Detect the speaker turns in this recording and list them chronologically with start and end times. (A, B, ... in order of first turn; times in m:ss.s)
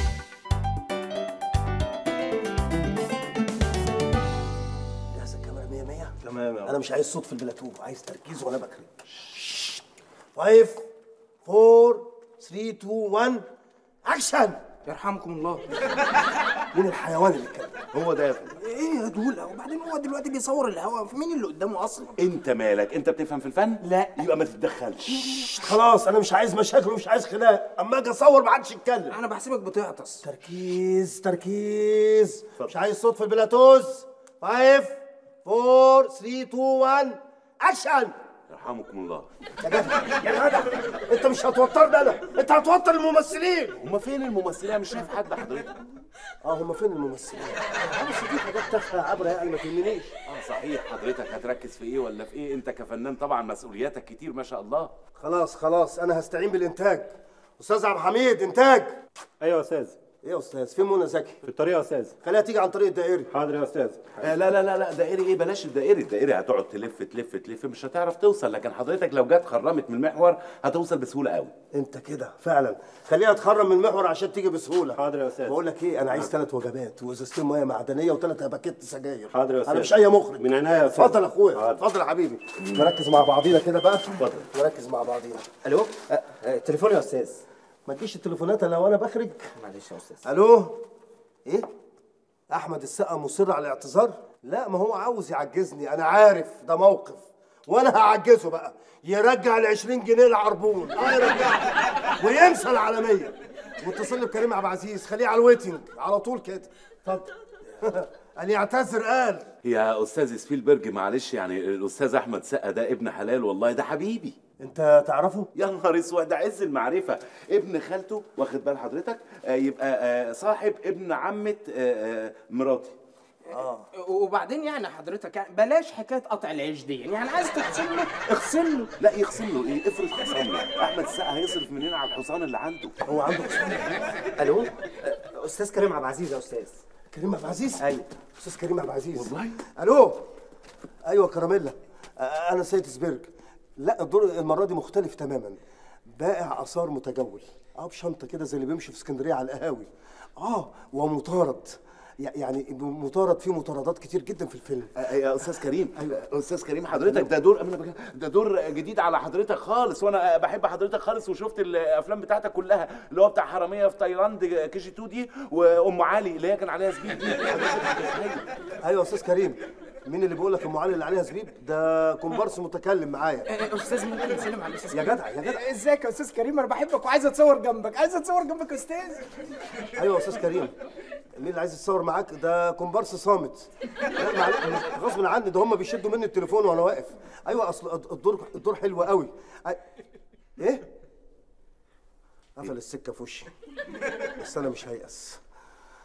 0:05.1-0:09.8 A
0:06.2-0:06.7 B
0:10.3-0:10.9 A
0:11.4-0:13.4 A
0:14.0-0:14.6 A
0:14.8-0:15.7 C
0:16.7-0:17.8 A
0:17.9-0:18.6 D
0:18.6-0:22.2 C
0:22.2-0:25.5 D
0:23.8-0:24.1 C
0:25.2-0:25.6 C
0:25.5-0:29.2 A
0:29.1-0:30.2 C
0:30.2-0:38.2 A
0:38.5-0:39.3 D
0:39.6-0:43.8 A
0:43.8-0:45.7 D
0:46.4-0:50.1 A
0:50.3-0:54.9 D
0:55.2-0:58.9 A
0:59.4-1:00.0 B
1:00.2-1:01.4 A
1:01.4-1:02.1 B
1:02.2-1:03.3 A
1:03.3-1:04.3 B
1:04.2-1:11.5 D
1:11.7-1:25.5 A
1:14.9-1:15.6 B
1:19.3-1:21.8 B
1:25.6-1:27.4 E
1:27.8-1:29.5 A
1:29.6-1:30.2 E
1:30.2-1:30.8 A
1:32.5-1:49.5 A
1:49.6-1:54.4 D
1:54.6-1:55.5 A
1:55.5-2:03.0 D
2:03.5-2:08.9 C
2:03.5-2:03.9 A
2:09.0-2:13.0 D
2:13.1-2:14.1 A
2:14.3-2:16.8 E
2:17.1-2:20.3 A
2:17.8-2:18.1 E
2:19.1-2:19.6 D
2:21.1-2:34.9 A
2:35.0-2:48.4 D
2:36.9-2:37.3 A
2:48.8-2:53.5 A
2:53.5-2:59.2 C
2:54.9-2:55.6 A
3:00.0-3:00.7 A
3:01.4-3:09.8 A
3:10.6-3:10.9 A
3:12.6-3:13.5 A
3:14.4-3:15.4 A